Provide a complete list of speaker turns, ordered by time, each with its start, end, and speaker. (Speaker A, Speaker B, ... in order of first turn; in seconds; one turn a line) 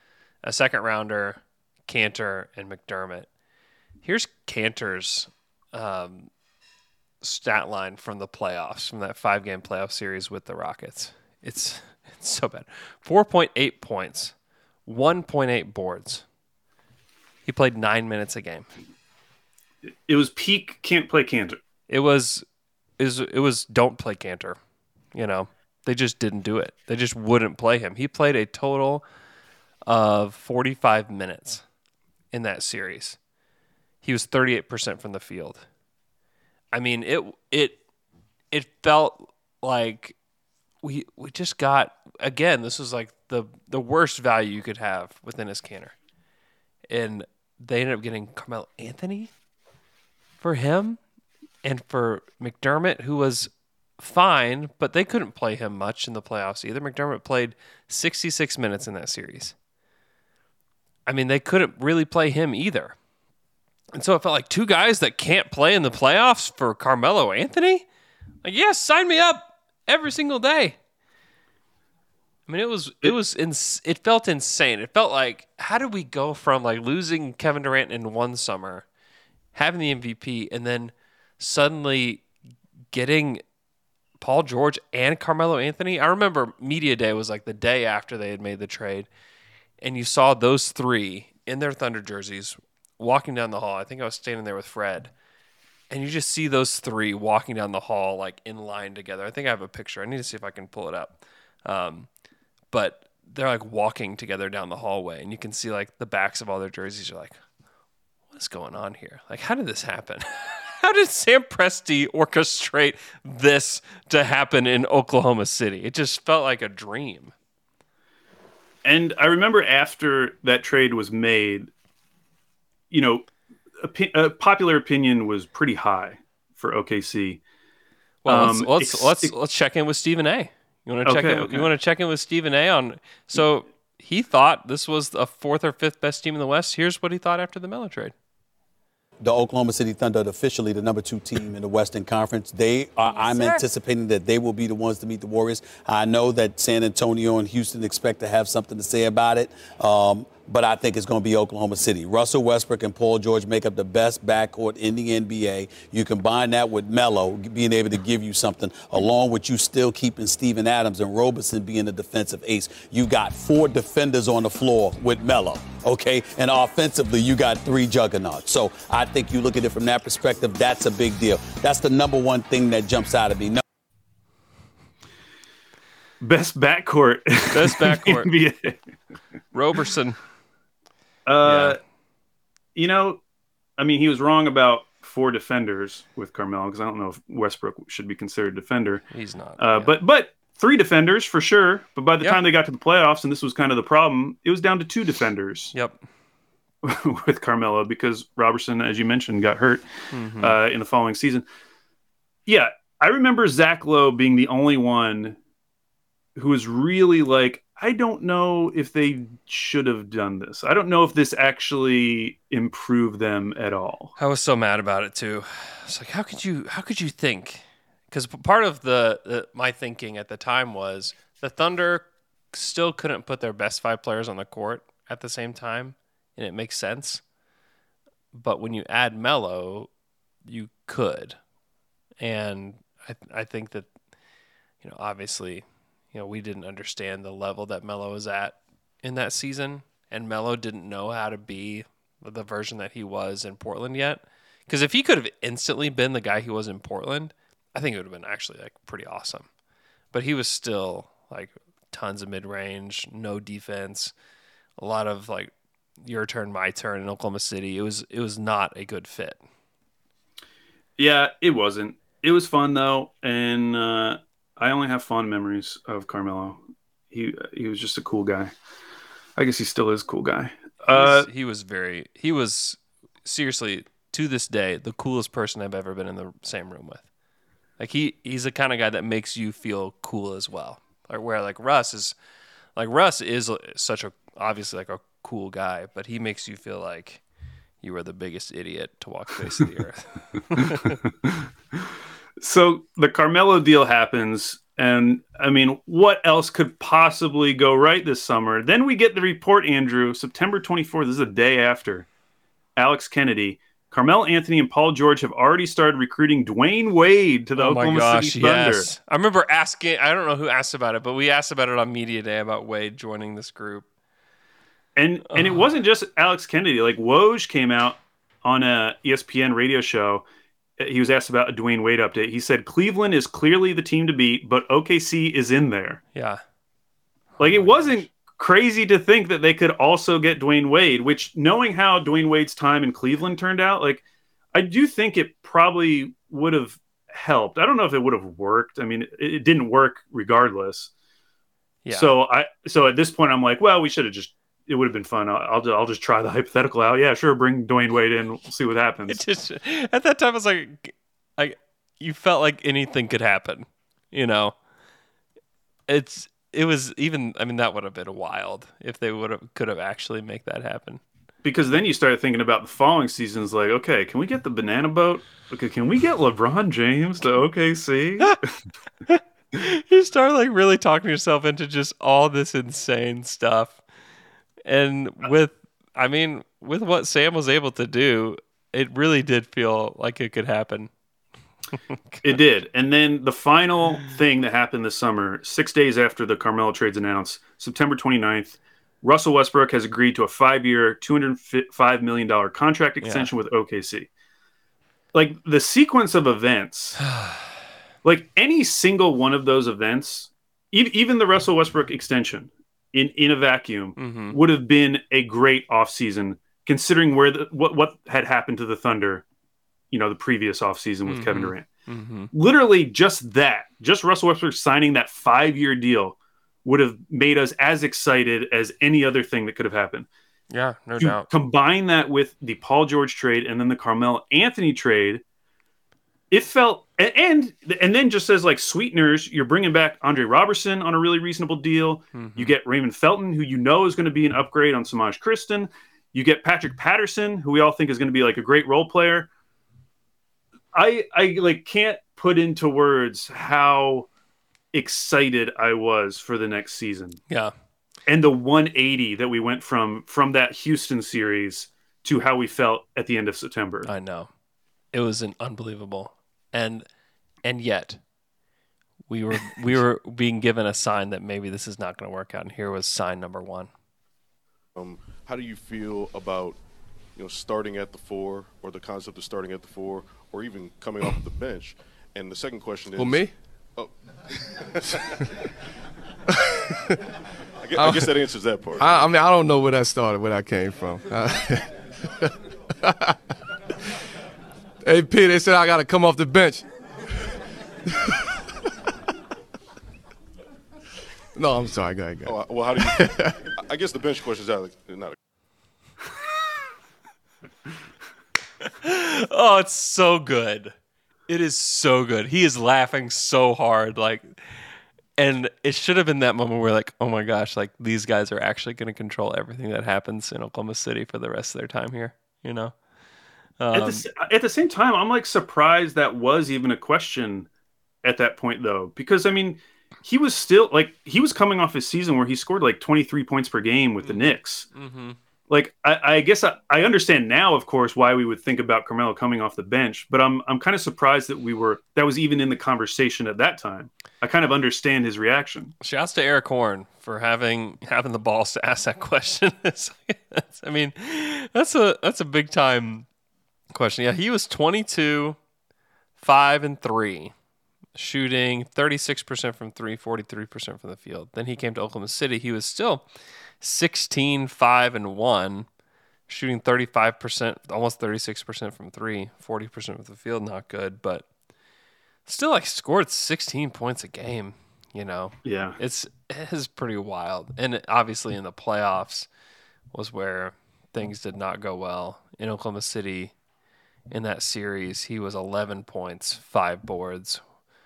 Speaker A: 0.4-3.3
Speaker A: 4.0-6.3
Speaker A: 7.2-14.3
Speaker A: 14.8-16.2
Speaker A: 17.4-18.7
Speaker B: 20.1-21.6
Speaker A: 21.9-22.4
Speaker A: 23.0-24.6
Speaker A: 25.1-29.0
Speaker A: 29.9-31.6
Speaker A: 32.3-33.2
Speaker A: 34.0-35.6
Speaker A: 36.7-37.8
Speaker A: 38.5-40.1
Speaker A: 40.8-45.9
Speaker A: 46.9-49.3
Speaker A: 50.4-51.0
Speaker A: 51.6-59.5
Speaker A: 61.0-63.0
Speaker A: 63.9-67.8
Speaker A: 68.4-70.8
Speaker A: 72.5-78.8
Speaker A: 79.5-82.2
Speaker A: 82.9-83.4
Speaker A: 84.2-89.1
Speaker A: 89.8-95.1
Speaker A: 95.9-102.1
Speaker A: 102.7-107.4
Speaker A: 108.3-117.3
Speaker B: 118.8-121.7
Speaker B: 122.9-123.3
Speaker B: 123.8-127.4
Speaker A: 128.2-138.1
Speaker B: 128.2-129.3
Speaker B: 131.1-131.7
Speaker C: 139.2-173.6
Speaker A: 143.1-143.6
Speaker B: 176.2-178.8
Speaker A: 177.5-178.3
Speaker A: 179.5-180.2
Speaker B: 181.2-181.8
Speaker A: 181.4-181.8
Speaker B: 182.7-183.2
Speaker B: 183.8-189.0
Speaker A: 189.1-189.9
Speaker B: 189.6-195.7
Speaker A: 195.7-196.0
Speaker B: 196.8-199.8
Speaker A: 200.1-200.6
Speaker B: 200.4-201.4
Speaker B: 202.4-205.4
Speaker B: 206.3-214.1
Speaker A: 214.2-227.2
Speaker A: 228.3-229.9
Speaker A: 230.4-231.4
Speaker A: 232.2-233.9
Speaker A: 234.8-249.5
Speaker A: 250.1-254.1
Speaker A: 254.8-259.4
Speaker B: 261.0-268.5
Speaker B: 269.4-271.3
Speaker A: 270.9-277.0
Speaker A: 277.8-282.1
Speaker A: 282.8-287.2
Speaker A: 287.8-291.0
Speaker B: 292.4-302.1
Speaker B: 302.8-308.9
Speaker A: 307.6-313.9
Speaker B: 314.9-320.2
Speaker A: 315.3-315.6
Speaker B: 320.8-326.0
Speaker A: 326.1-326.4
Speaker A: 327.4-328.0
Speaker B: 327.4-334.0
Speaker B: 334.5-340.9
Speaker A: 341.8-342.1
Speaker B: 341.9-349.2
Speaker A: 349.1-354.6
Speaker A: 355.9-361.0
Speaker B: 361.4-368.4
Speaker A: 369.1-373.8
Speaker A: 374.6-380.9
Speaker A: 382.1-382.4
Speaker B: 382.2-394.1
Speaker A: 393.0-393.3
Speaker B: 395.1-397.0
Speaker A: 397.0-397.6
Speaker B: 398.0-409.2
Speaker A: 404.0-404.4
Speaker B: 409.9-411.7
Speaker A: 411.1-412.3
Speaker B: 412.3-420.1
Speaker A: 420.5-421.3
Speaker B: 421.0-425.2
Speaker B: 426.3-439.3
Speaker A: 432.1-432.5
Speaker B: 440.7-444.1
Speaker B: 444.7-447.2
Speaker B: 448.1-453.9
Speaker A: 453.9-454.3
Speaker A: 454.9-456.9
Speaker A: 457.4-458.0
Speaker A: 459.1-463.7
Speaker D: 464.8-466.6
Speaker D: 467.1-474.8
Speaker E: 472.9-473.4
Speaker D: 477.6-479.0
Speaker E: 477.8-482.3
Speaker E: 482.8-483.1
Speaker E: 484.8-486.6
Speaker E: 491.3-493.2
Speaker D: 492.2-495.2
Speaker A: 498.6-500.7
Speaker A: 501.3-504.6
Speaker A: 505.2-512.7
Speaker A: 513.6-514.0
Speaker B: 513.7-517.5
Speaker B: 518.0-524.7
Speaker A: 524.0-525.2
Speaker B: 525.5-535.7
Speaker A: 535.8-543.0
Speaker A: 543.7-545.4
Speaker A: 546.2-547.3
Speaker A: 548.0-553.0
Speaker A: 553.6-555.7
Speaker A: 556.3-561.2
Speaker A: 562.2-569.3
Speaker B: 565.4-565.8
Speaker A: 569.9-573.3
Speaker A: 574.1-577.4